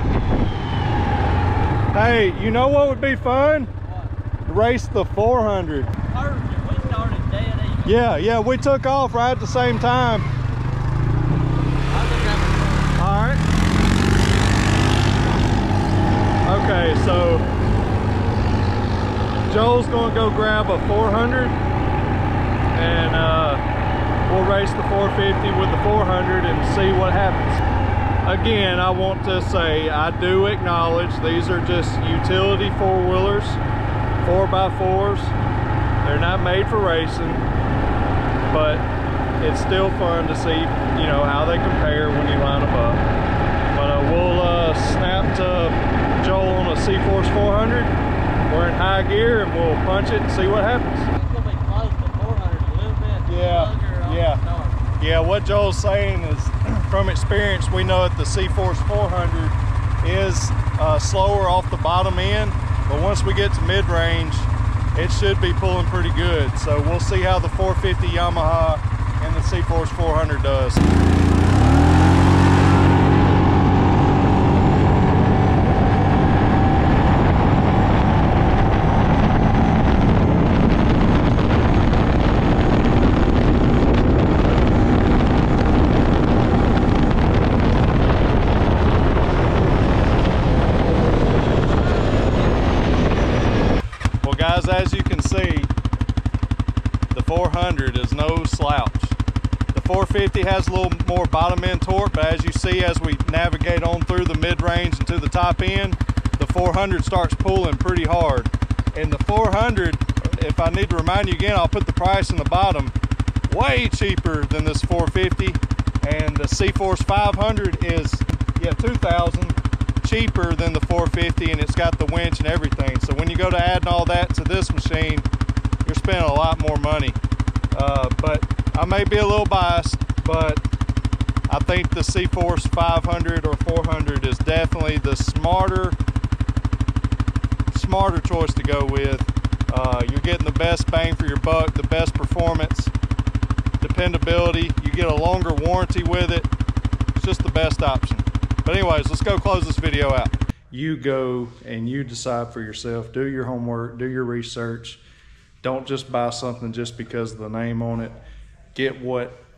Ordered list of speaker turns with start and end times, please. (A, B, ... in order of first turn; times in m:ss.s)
0:01.9-0:03.7 A
0:04.4-0:06.0 A
0:06.0-0:07.9 B
0:07.8-0:10.3 A
0:11.9-0:12.9 B
0:12.9-0:13.4 A
0:16.4-0:17.4 A
0:19.4-0:21.6 A
0:22.7-0:23.6 A
0:24.3-0:27.6 A
0:28.2-0:33.6 A
0:34.2-0:35.3 A
0:36.0-0:37.4 A
0:38.5-0:38.9 A
0:39.4-0:43.0 A
0:43.7-0:47.9 A
0:48.5-0:51.1 A
0:51.1-0:54.8 B
0:53.3-0:54.4 A
0:55.0-1:10.9 A
1:34.2-1:35.7 A
1:37.1-1:39.2 A
1:39.7-1:52.9 A
1:53.5-2:05.3 A
2:05.8-2:07.2 A
2:07.7-2:10.6 A
2:11.5-2:16.0 A
2:17.7-2:22.9 A
2:23.8-2:26.5 A
2:27.2-2:35.0 A
2:35.6-2:38.2 A
2:38.7-2:39.4 A